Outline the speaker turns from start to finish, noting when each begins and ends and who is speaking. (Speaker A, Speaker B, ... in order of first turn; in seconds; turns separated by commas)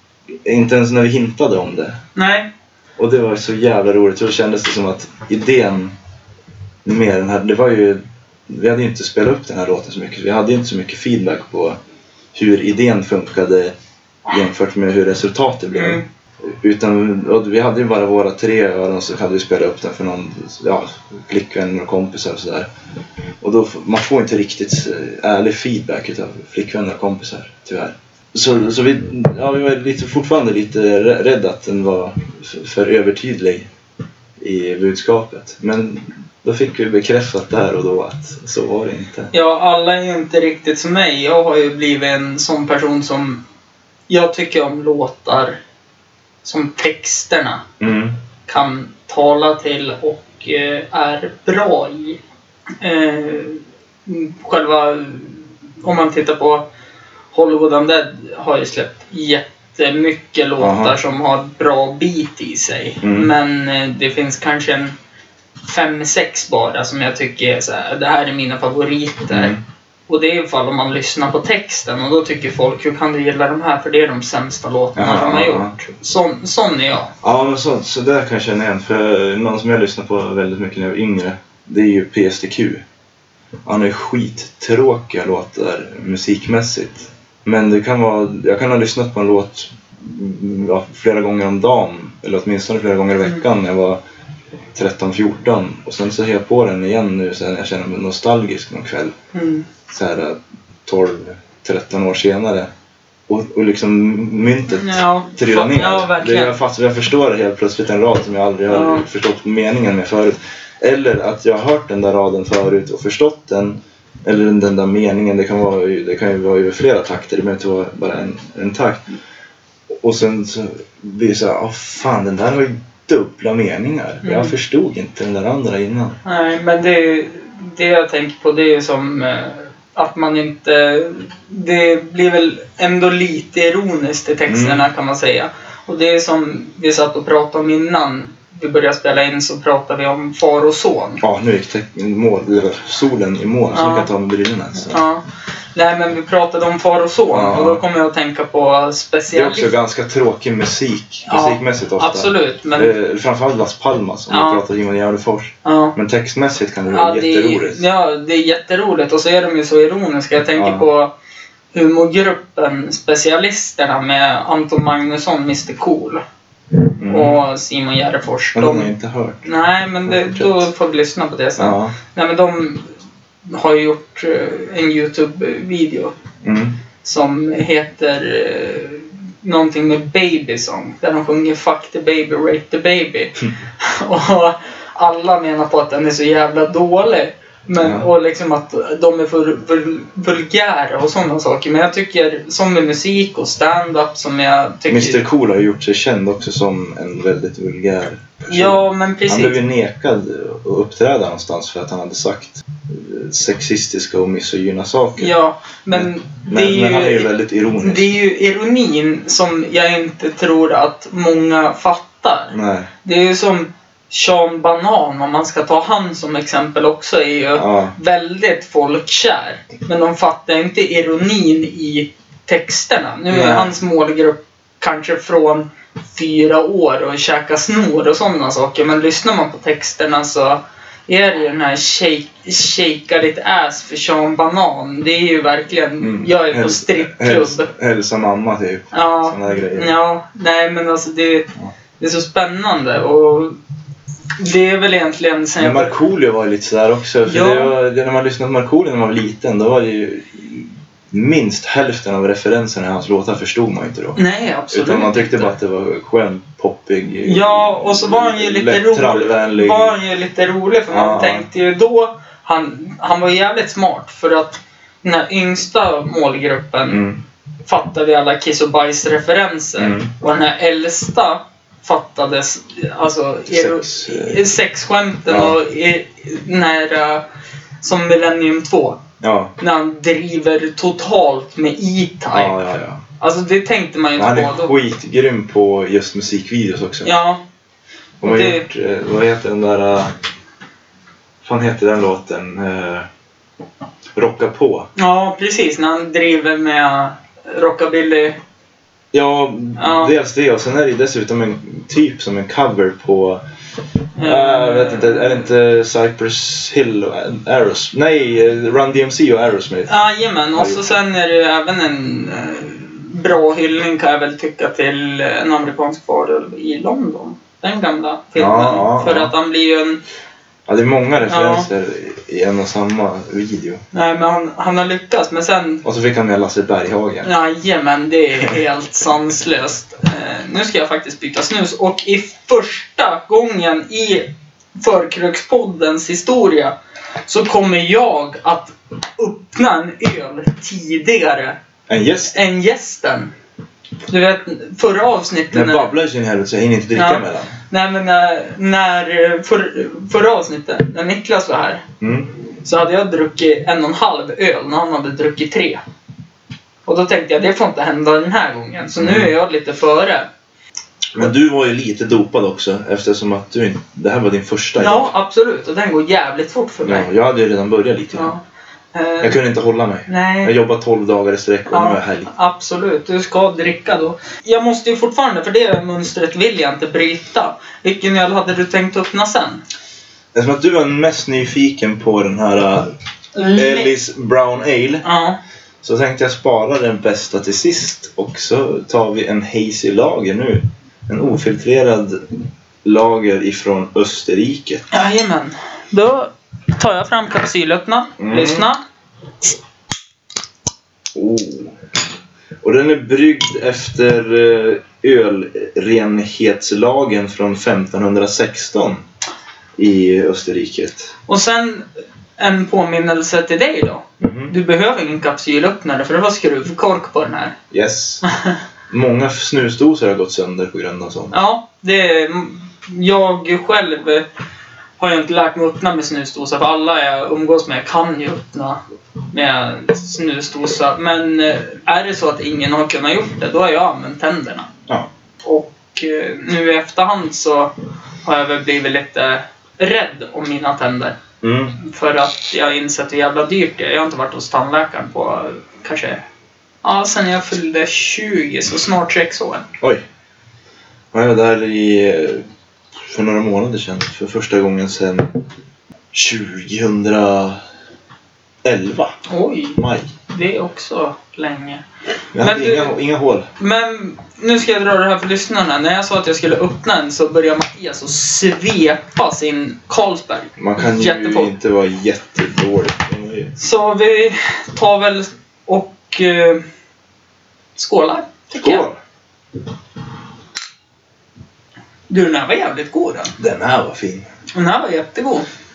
Speaker A: 0.4-2.0, Speaker B: 2.1-2.5, Speaker A: 3.0-5.9, Speaker A: 6.8-11.8, Speaker A: 12.3-13.7, Speaker A: 14.3-22.7, Speaker B: 15.7-16.0, Speaker A: 23.4-33.7, Speaker A: 34.4-39.3, Speaker B: 39.3-43.4, Speaker B: 44.1-45.6, Speaker B: 46.4-47.6, Speaker A: 47.8-48.1, Speaker B: 48.5-52.2, Speaker B: 52.8-56.6, Speaker B: 57.3-64.9, Speaker A: 60.6-61.0, Speaker A: 63.0-63.3, Speaker B: 65.6-69.5, Speaker A: 69.3-69.6, Speaker B: 70.1-77.1, Speaker A: 74.9-75.8, Speaker A: 77.2-82.8, Speaker A: 83.6-94.0, Speaker A: 94.7-99.1, Speaker B: 99.3-99.7, Speaker A: 99.9-102.7, Speaker A: 103.3-119.0, Speaker B: 104.8-106.5, Speaker B: 108.7-109.0, Speaker A: 120.0-126.2, Speaker B: 124.2-124.5, Speaker B: 126.2-141.2, Speaker A: 134.5-134.9, Speaker A: 141.2-145.0, Speaker B: 143.7-144.1, Speaker B: 144.8-145.2, Speaker B: 145.7-149.7, Speaker A: 147.3-147.8, Speaker A: 149.3-157.8, Speaker B: 151.2-152.9, Speaker B: 154.3-154.6, Speaker B: 155.6-155.9, Speaker B: 156.9-161.1, Speaker A: 160.5-160.8, Speaker B: 161.7-166.2, Speaker A: 167.0-167.4, Speaker B: 167.1-168.9, Speaker A: 168.5-169.5, Speaker B: 169.4-172.9, Speaker A: 170.0-170.7, Speaker A: 171.6-171.9, Speaker B: 173.4-176.1, Speaker A: 176.4-176.8, Speaker B: 177.0-195.2, Speaker A: 187.8-188.1, Speaker A: 194.9-205.3, Speaker B: 198.5-199.6, Speaker B: 205.2-237.7, Speaker A: 205.9-208.1, Speaker A: 212.5-212.9, Speaker A: 217.5-217.9, Speaker A: 223.3-223.7, Speaker A: 236.0-239.9, Speaker B: 238.9-241.5, Speaker B: 242.0-243.6, Speaker B: 244.4-245.9, Speaker A: 245.6-259.9, Speaker B: 247.2-247.7, Speaker B: 254.2-255.5, Speaker B: 257.2-267.0, Speaker A: 260.9-261.4, Speaker A: 266.9-267.2, Speaker B: 267.6-277.2, Speaker A: 269.8-270.1, Speaker A: 273.5-274.4, Speaker A: 275.3-275.6, Speaker B: 277.8-279.0, Speaker A: 279.2-279.5, Speaker B: 279.6-282.6, Speaker A: 282.3-283.0, Speaker B: 283.2-284.7, Speaker A: 284.1-287.1, Speaker B: 287.0-287.4, Speaker A: 288.2-290.1, Speaker B: 288.2-288.6, Speaker A: 291.4-293.1, Speaker A: 294.1-294.9, Speaker B: 295.0-298.4, Speaker A: 299.1-303.4, Speaker B: 299.8-300.1, Speaker B: 304.1-305.5, Speaker A: 304.2-309.9, Speaker B: 309.9-320.0, Speaker A: 310.5-310.8, Speaker A: 318.4-319.3, Speaker A: 320.7-323.8, Speaker B: 321.3-321.7, Speaker B: 323.9-325.8, Speaker A: 325.8-327.3, Speaker B: 327.2-336.7, Speaker B: 337.2-341.6, Speaker A: 341.9-342.4, Speaker B: 342.3-343.3, Speaker B: 344.1-345.9, Speaker A: 345.5-347.5, Speaker B: 346.9-351.8, Speaker A: 352.0-352.3, Speaker B: 352.6-355.8, Speaker B: 356.9-360.3, Speaker A: 359.0-359.3, Speaker A: 361.1-365.1, Speaker B: 364.8-367.1, Speaker A: 366.8-368.3, Speaker B: 368.1-368.4, Speaker B: 368.9-369.4, Speaker A: 369.2-372.3, Speaker B: 370.1-370.5, Speaker B: 371.7-379.6, Speaker A: 380.3-382.9, Speaker B: 383.3-383.9, Speaker A: 383.5-385.0, Speaker B: 385.0-385.4, Speaker A: 385.8-392.2, Speaker A: 392.8-394.9, Speaker B: 394.9-398.8, Speaker A: 398.2-398.7, Speaker A: 401.1-401.8, Speaker A: 402.6-409.0, Speaker A: 409.8-411.1, Speaker B: 411.3-411.9, Speaker B: 412.4-417.5, Speaker A: 414.2-414.5, Speaker A: 417.7-418.2, Speaker A: 418.9-421.4, Speaker B: 421.3-424.2, Speaker B: 425.0-428.8, Speaker B: 429.3-434.7, Speaker B: 435.4-437.7, Speaker B: 438.2-441.2, Speaker A: 441.4-441.8, Speaker B: 441.8-446.2, Speaker B: 446.8-449.6, Speaker A: 451.1-452.4, Speaker A: 453.0-455.4, Speaker A: 456.1-457.6, Speaker A: 458.6-459.1, Speaker B: 459.3-459.8, Speaker A: 459.8-460.1, Speaker B: 460.3-461.8, Speaker A: 462.3-463.5, Speaker B: 462.4-462.9, Speaker B: 463.6-471.5, Speaker A: 470.6-473.5, Speaker B: 473.6-476.6, Speaker B: 477.8-478.9, Speaker A: 478.5-479.0, Speaker B: 482.1-483.3, Speaker A: 483.4-484.2, Speaker B: 484.5-485.4